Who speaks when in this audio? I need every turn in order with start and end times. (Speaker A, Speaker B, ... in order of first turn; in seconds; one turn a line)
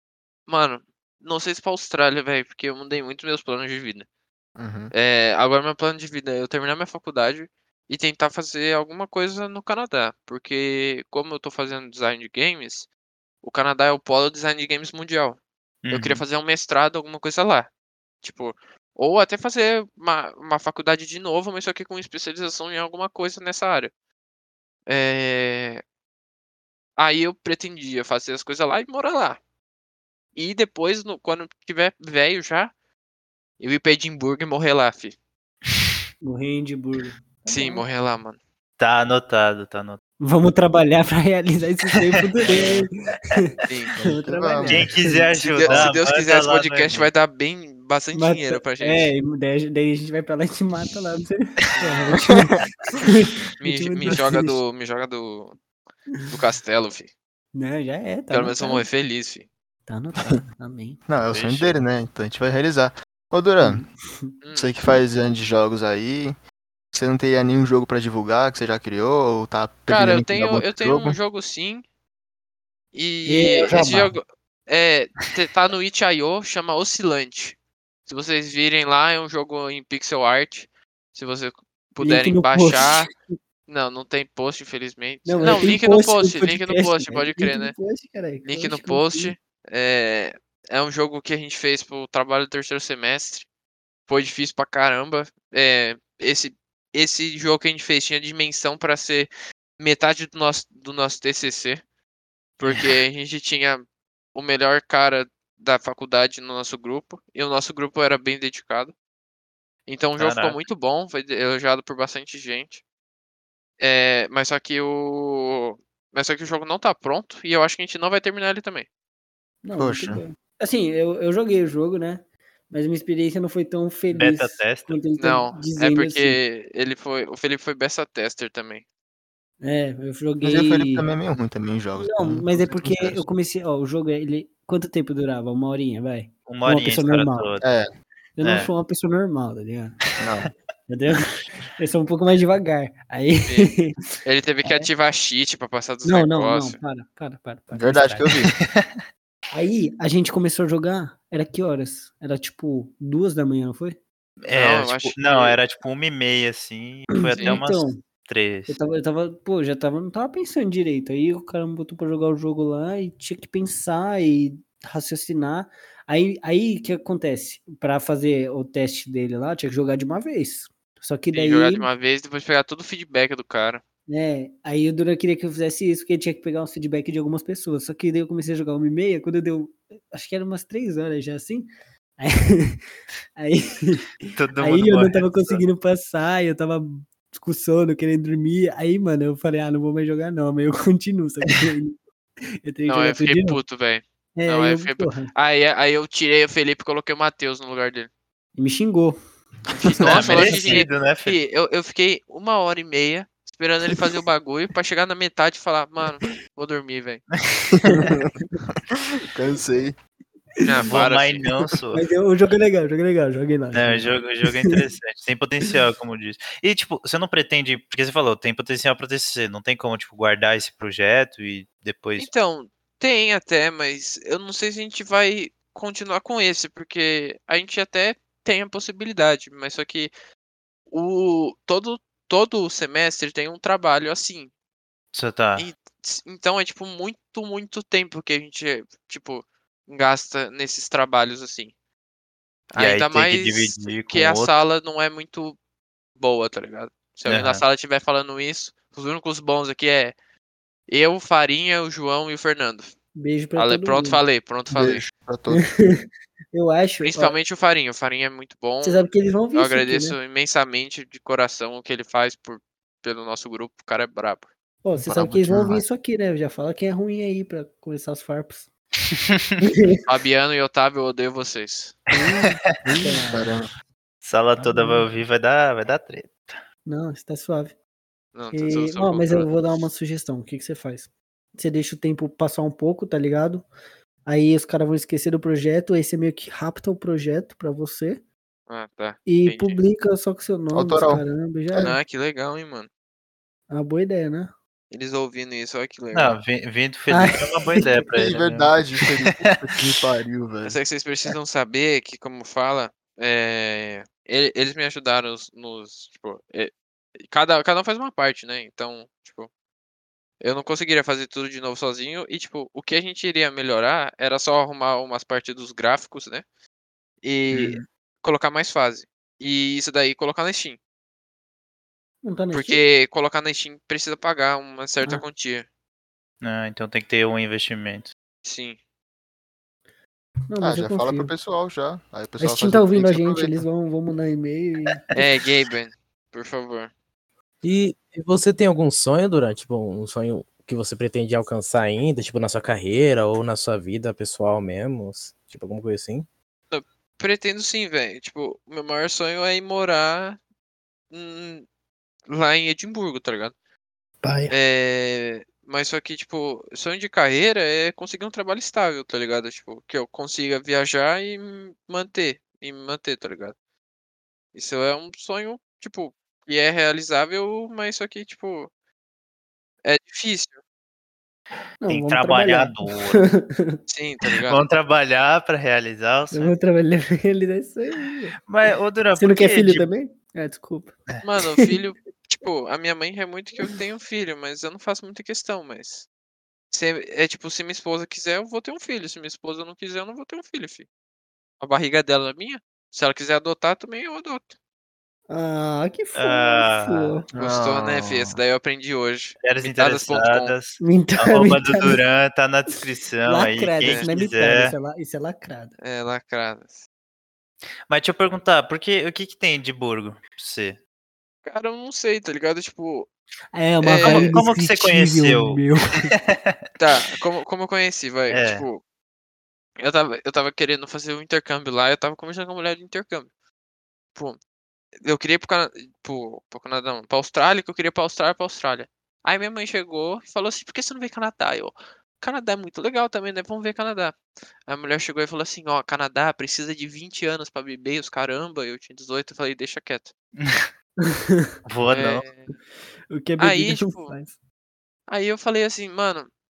Speaker A: 0.5-4.1
Speaker B: 4.6-4.9
Speaker A: 4.9-12.9
Speaker A: 13.4-15.4
Speaker C: 15.8-16.2
Speaker A: 15.9-17.7
Speaker A: 18.2-23.9
Speaker A: 24.9-25.8
Speaker A: 27.0-29.4
Speaker A: 30.4-32.7
Speaker A: 33.6-35.1
Speaker D: 36.2-37.8
Speaker A: 37.5-38.4
Speaker C: 38.8-40.0
Speaker D: 40.2-45.6
Speaker A: 43.7-44.0
Speaker B: 44.0-45.0
Speaker C: 44.7-47.1
Speaker A: 45.5-49.1
Speaker D: 48.1-54.6
Speaker A: 51.8-52.1
Speaker B: 52.3-52.6
Speaker A: 53.6-55.6
Speaker A: 56.3-57.1
Speaker D: 57.5-58.9
Speaker A: 58.3-59.5
Speaker D: 59.9-61.0
Speaker B: 61.1-63.8
Speaker A: 61.3-61.8
Speaker D: 63.6-64.3
Speaker A: 64.4-64.7
Speaker B: 64.5-66.4
Speaker B: 66.9-71.2
Speaker A: 69.9-71.8
Speaker A: 72.9-83.1
Speaker D: 73.3-74.2
Speaker D: 82.0-83.4
Speaker A: 83.7-87.8
Speaker D: 85.3-89.3
Speaker A: 88.5-93.5
Speaker A: 94.1-101.8
Speaker A: 102.6-108.9
Speaker C: 102.7-103.0
Speaker A: 109.9-112.8
Speaker C: 110.2-110.6
Speaker A: 113.8-118.9
Speaker D: 119.6-126.4
Speaker B: 119.8-120.2
Speaker C: 124.1-125.0
Speaker A: 125.2-128.8
Speaker D: 129.6-131.1
Speaker B: 130.4-133.2
Speaker D: 132.0-137.6
Speaker C: 136.5-137.6
Speaker B: 137.6-137.9
Speaker D: 138.4-140.0
Speaker C: 138.4-138.7
Speaker B: 140.2-140.5
Speaker D: 140.9-143.9
Speaker A: 143.4-143.7
Speaker A: 144.2-146.8
Speaker D: 144.6-144.9
Speaker D: 146.1-148.3
Speaker B: 147.7-148.5
Speaker C: 148.5-149.0
Speaker D: 149.5-154.0
Speaker C: 154.4-158.8
Speaker A: 154.5-155.6
Speaker D: 157.2-158.0
Speaker D: 158.7-171.9
Speaker A: 171.3-173.8
Speaker D: 174.1-181.7
Speaker D: 182.2-182.8
Speaker D: 183.4-192.0
Speaker C: 184.3-185.6
Speaker D: 192.6-193.6
Speaker A: 192.9-198.1
Speaker D: 194.4-195.3
Speaker D: 198.6-199.2
Speaker A: 199.8-207.2
Speaker D: 199.9-200.8
Speaker C: 200.0-201.4
Speaker B: 200.2-200.5
Speaker B: 207.7-208.3
Speaker D: 207.8-208.6
Speaker B: 209.2-210.0
Speaker A: 210.7-211.5
Speaker C: 210.8-212.1
Speaker D: 211.9-214.8
Speaker C: 213.7-222.3
Speaker A: 222.2-230.1
Speaker A: 230.9-234.5
Speaker C: 235.1-235.7
Speaker A: 235.6-241.7
Speaker A: 242.7-245.6
Speaker C: 242.8-244.6
Speaker A: 246.2-250.1
Speaker C: 247.3-247.6
Speaker A: 250.9-252.9
Speaker D: 253.2-254.2
Speaker A: 253.6-255.1
Speaker B: 254.7-255.7
Speaker D: 255.5-257.4
Speaker A: 257.0-264.5
Speaker D: 258.8-260.2
Speaker D: 264.8-268.7
Speaker B: 265.1-265.8
Speaker C: 269.1-269.6
Speaker D: 269.6-270.0
Speaker A: 270.1-272.0
Speaker D: 272.1-273.5
Speaker C: 272.1-272.8
Speaker B: 273.2-273.7
Speaker C: 274.2-276.6
Speaker D: 274.6-275.1
Speaker D: 276.9-277.8
Speaker A: 278.4-279.5
Speaker D: 278.5-283.7
Speaker D: 284.3-288.2
Speaker A: 288.7-289.8
Speaker D: 289.3-291.9
Speaker B: 290.7-292.0
Speaker A: 291.8-292.9
Speaker D: 293.7-294.5
Speaker A: 294.9-296.4
Speaker C: 296.1-300.0
Speaker D: 297.1-297.9
Speaker B: 298.1-300.8
Speaker A: 300.6-306.7
Speaker A: 307.3-309.5
Speaker A: 310.4-316.4
Speaker A: 317.2-320.8
Speaker C: 317.5-317.9
Speaker D: 322.2-322.8
Speaker A: 322.5-325.7
Speaker C: 326.4-328.1
Speaker A: 328.4-328.8
Speaker D: 330.5-331.3
Speaker B: 330.6-333.7
Speaker D: 332.4-335.0
Speaker A: 335.1-336.9
Speaker E: 337.6-346.3
Speaker A: 346.7-350.4
Speaker A: 351.1-351.7
Speaker A: 352.3-353.5
Speaker E: 354.2-354.5
Speaker A: 354.5-363.6
Speaker A: 364.6-368.7
Speaker A: 369.8-370.6
Speaker D: 371.8-373.8
Speaker C: 371.9-373.3
Speaker A: 373.9-374.6
Speaker C: 374.4-376.6
Speaker D: 376.3-378.4
Speaker C: 378.4-379.9
Speaker D: 379.1-380.9
Speaker A: 381.2-386.1
Speaker A: 386.7-390.9
Speaker A: 391.6-394.5
Speaker D: 395.3-397.2
Speaker C: 396.1-397.2
Speaker B: 397.3-398.4
Speaker A: 397.4-400.5
Speaker C: 399.4-404.8
Speaker D: 400.8-402.0
Speaker D: 403.2-405.8
Speaker A: 403.8-404.1
Speaker A: 405.8-406.8
Speaker C: 407.9-410.8
Speaker A: 411.5-413.1
Speaker D: 413.5-416.1
Speaker A: 413.8-414.4
Speaker C: 414.0-416.6
Speaker A: 416.8-418.8
Speaker C: 418.3-418.6
Speaker A: 419.8-423.3
Speaker A: 425.0-440.1
Speaker C: 440.4-440.7
Speaker D: 441.1-441.5
Speaker C: 441.6-442.3
Speaker A: 441.9-442.5
Speaker D: 443.1-444.4
Speaker A: 443.4-444.2
Speaker A: 445.1-446.3